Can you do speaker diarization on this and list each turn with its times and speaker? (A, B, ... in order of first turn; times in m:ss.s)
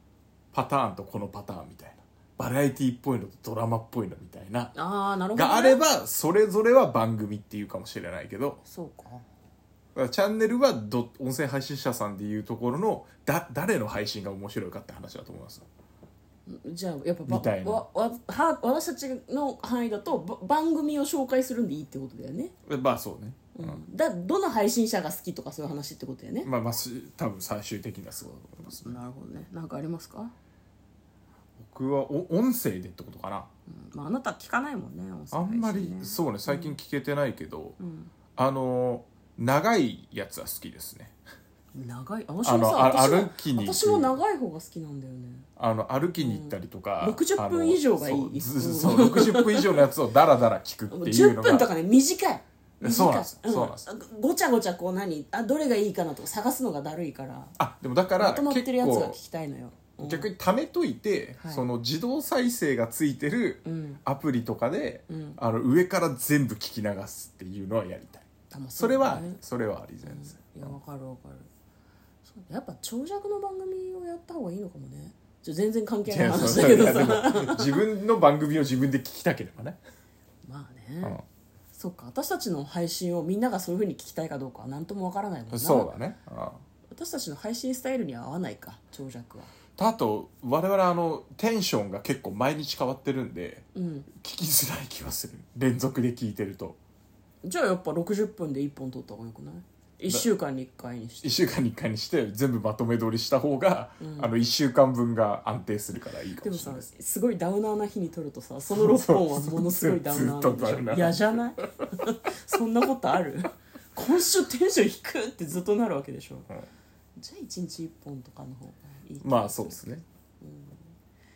0:00.5-0:04.8 A
0:04.8-0:05.8 B
0:05.4-0:08.6 A
0:08.6-0:09.2 B
0:10.0-0:15.7 A
0:16.5-0:22.5 B
0:17.3-0:17.8 A
0:22.7-0:23.8 A
0:23.6-0:26.5 B
0:26.4-0:29.0 A
0:28.8-0:30.3 B
0:31.6-0:33.5 A
0:33.7-0:36.8 B
0:35.3-0:37.8 A
0:37.8-0:38.1 B
0:38.4-0:41.2 A
0:41.8-0:45.5 B
0:42.4-0:44.2 A
0:45.6-0:51.7 A
0:46.2-0:49.9 B
0:50.9-0:57.6 B
0:52.8-0:53.9 A
0:57.6-0:59.2 A
0:58.2-1:00.3 B
1:00.0-1:10.8 A
1:01.4-1:01.6 B
1:03.6-1:04.0 B
1:05.1-1:05.4 B
1:08.5-1:09.4 B
1:10.0-1:11.5 B
1:12.3-1:17.7 B
1:16.1-1:19.8 A
1:20.5-1:21.2 B
1:21.7-1:25.9 B
1:25.5-1:26.6 A
1:26.9-1:29.5 B
1:29.8-1:36.8 A
1:33.8-1:34.1 B
1:37.4-1:41.4 B
1:41.2-1:46.9 A
1:44.0-1:44.3 B
1:46.4-1:56.5 B
1:48.7-1:51.3 A
1:57.2-1:59.8 B
1:59.2-2:00.0 A
2:00.4-2:00.9 B